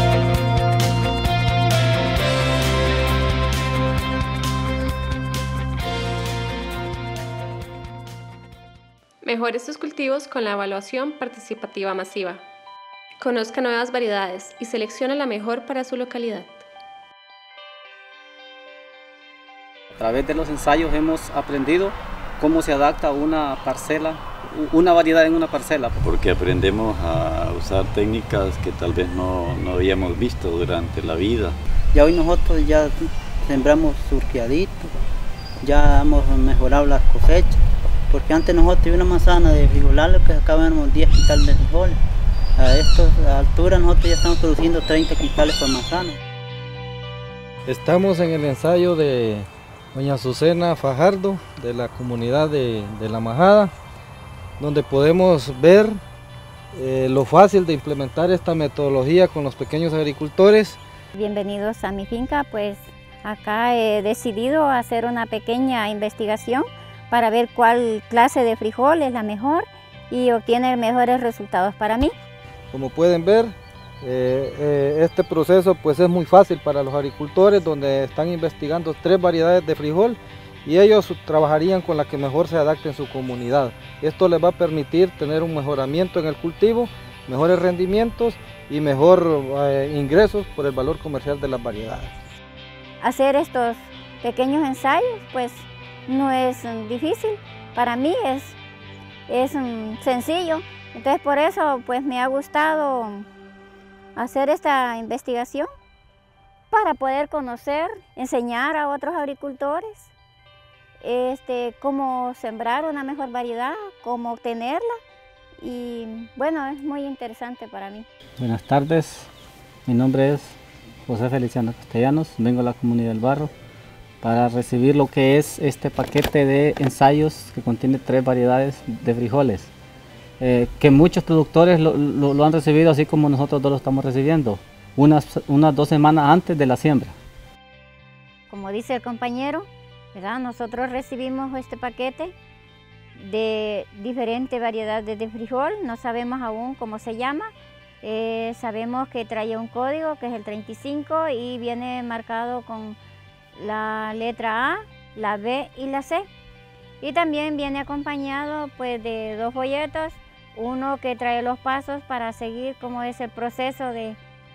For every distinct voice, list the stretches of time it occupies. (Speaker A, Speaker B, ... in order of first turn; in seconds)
Speaker A: 9.2-12.4, 13.2-16.6
Speaker B: 19.9-25.9, 118.4-119.3, 119.9-120.5, 121.1-123.5, 124.2-129.7, 130.4-137.1
Speaker C: 26.0-31.6
Speaker D: 31.9-34.9, 35.6-42.0, 42.6-46.2
Speaker E: 47.7-53.7, 54.6-56.0, 56.7-60.8, 72.7-92.2
Speaker F: 61.1-72.1, 93.0-98.6, 99.3-103.3, 104.2-105.7, 106.7-110.1, 111.0-115.0, 115.6-118.1, 138.5-142.3, 143.2-147.5, 148.0-153.0, 153.6-156.3, 157.0-164.2